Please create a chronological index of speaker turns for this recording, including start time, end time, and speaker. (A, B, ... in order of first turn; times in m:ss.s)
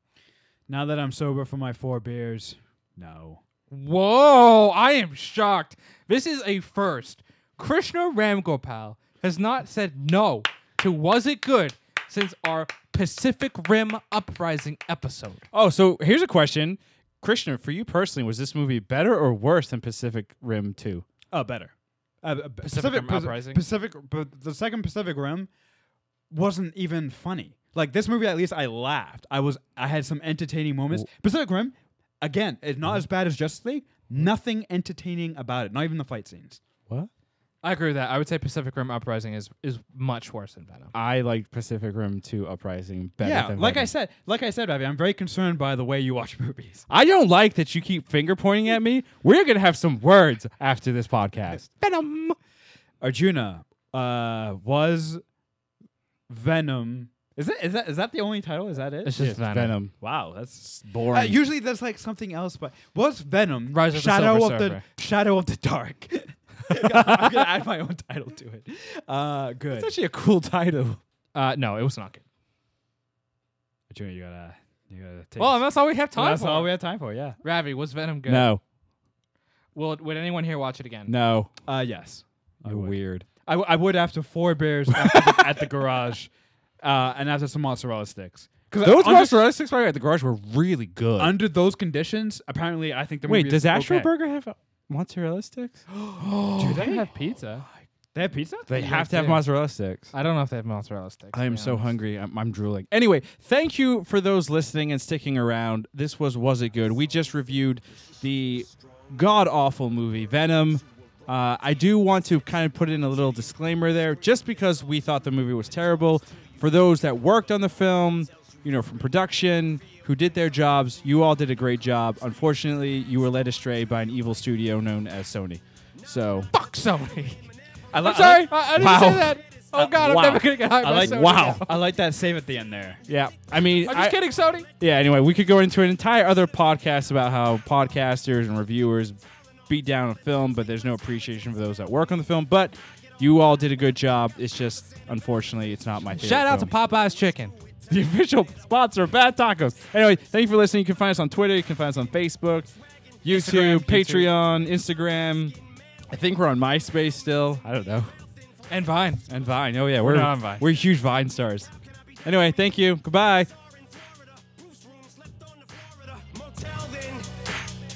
0:00.7-0:03.4 A
0:03.7-0:15.4 B
0:15.5-0:21.0 C
0:21.3-0:25.5 A
0:22.6-0:23.6 B
0:26.3-0:36.6 A
0:37.6-0:40.9 B
0:40.9-0:43.9 C
0:43.2-0:46.9 A
0:46.9-0:52.4 C
0:53.0-0:55.2 A
0:56.3-0:59.2 A
0:59.0-0:59.8 B
0:59.2-0:59.9 C
1:00.0-1:09.9 A
1:00.6-1:01.4 C
1:03.7-1:04.8 B
1:09.7-1:11.0 C
1:11.3-1:12.2 B
1:13.9-1:17.4 A
1:15.4-1:16.7 B
1:17.4-1:18.5 B
1:18.2-1:18.6 C
1:19.7-1:21.1 B
1:21.1-1:21.5 C
1:21.6-1:26.3 A
1:22.6-1:23.3 C
1:25.0-1:25.6 C
1:26.8-1:29.4 A
1:28.8-1:31.4 C
1:31.2-1:34.1 A
1:33.2-1:36.9 C
1:36.1-1:37.1 A
1:36.2-1:37.6 B
1:38.1-1:39.4 A
1:38.7-1:40.1 C
1:39.0-1:39.4 B
1:40.1-1:41.9 B
1:41.3-2:06.5 C
2:06.5-2:11.8 B
2:07.9-2:08.9 A
2:08.3-2:09.4 C
2:09.7-2:13.0 A
2:09.9-2:11.7 C
2:13.0-2:14.2 C
2:13.8-2:14.7 B
2:14.7-2:26.7 C
2:26.1-2:27.5 B
2:27.9-2:32.7 C
2:33.2-2:35.6 C
2:33.3-2:34.3 B
2:36.1-2:38.1 C
2:38.7-2:39.2 B
2:39.2-2:41.7 C
2:40.0-2:40.6 B
2:41.8-2:42.6 D
2:42.2-2:43.5 C
2:43.3-2:47.6 D